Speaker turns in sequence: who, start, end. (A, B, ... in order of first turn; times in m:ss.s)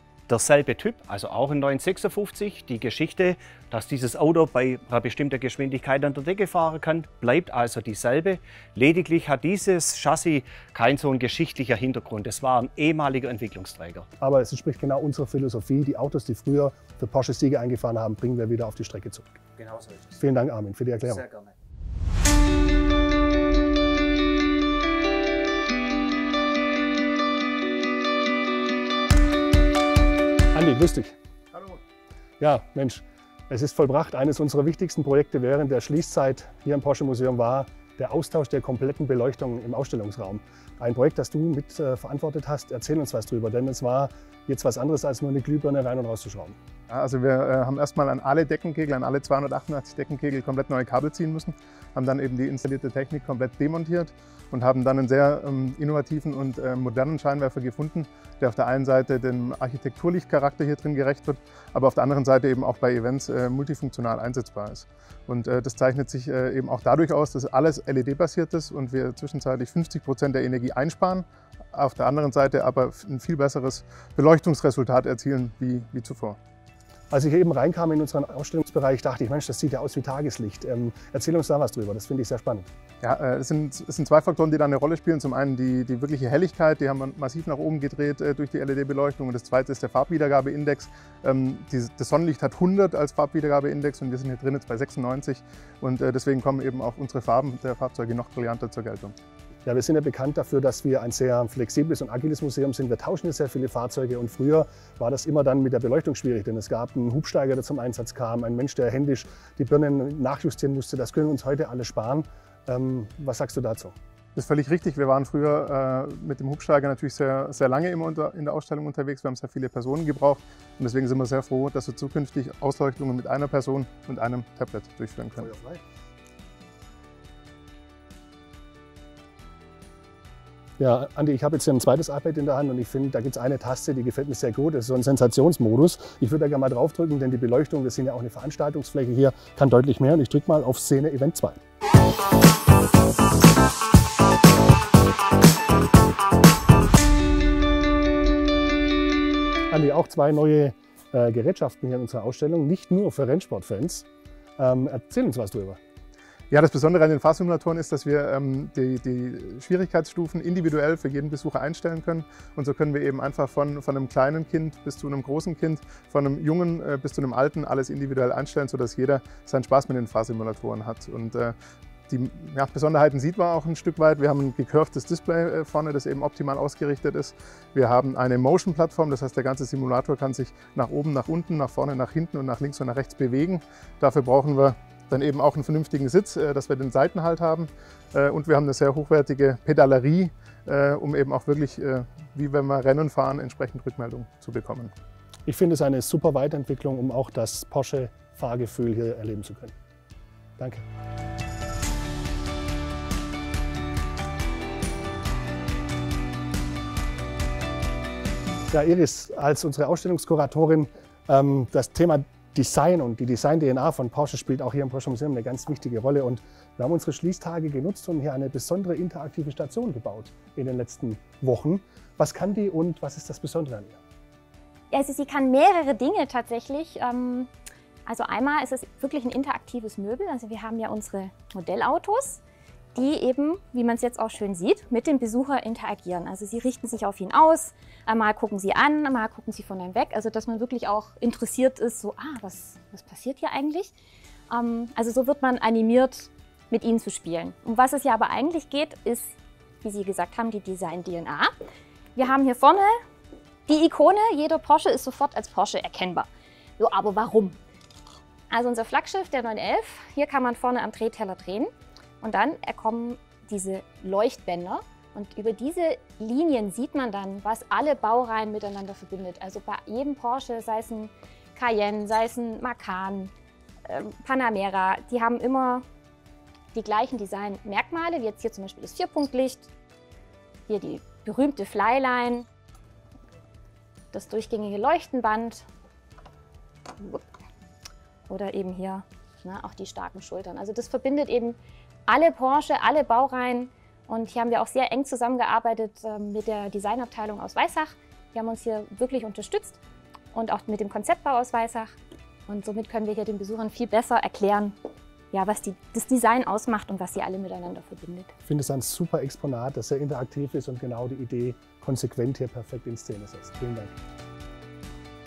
0:00.3-0:14.1 A
0:14.2-0:19.4 B
0:20.2-0:21.2 B
0:30.5-0:31.2 B
0:32.4-0:46.6 B
0:46.9-1:16.4 C
1:17.1-1:22.7 B
1:23.0-1:39.2 C
1:39.6-1:53.9 B
1:54.4-2:05.5 C
2:05.4-2:05.8 B
2:10.8-2:21.6 B
2:29.7-2:34.1 B
2:34.6-2:35.8 B
2:36.5-2:51.6 C
2:52.1-3:14.9 C
3:15.4-3:19.7 B
3:20.6-3:20.8 B
3:28.7-3:44.0 B
3:44.9-3:47.5 D
3:48.1-3:52.4 D
3:52.9-4:03.9 D
4:04.5-4:11.5 D
4:12.2-4:13.0 D
4:13.7-4:17.6 D
4:18.5-4:21.7 D
4:22.2-4:33.3 D
4:33.9-4:35.8 D
4:36.7-4:39.7 D
4:40.7-4:42.4 D
4:44.1-4:45.7 D
4:47.0-4:47.2 D
4:48.3-4:59.8 D
5:00.3-5:01.9 D
5:02.5-5:04.8 D
5:05.3-5:08.3 D
5:08.4-5:14.0 B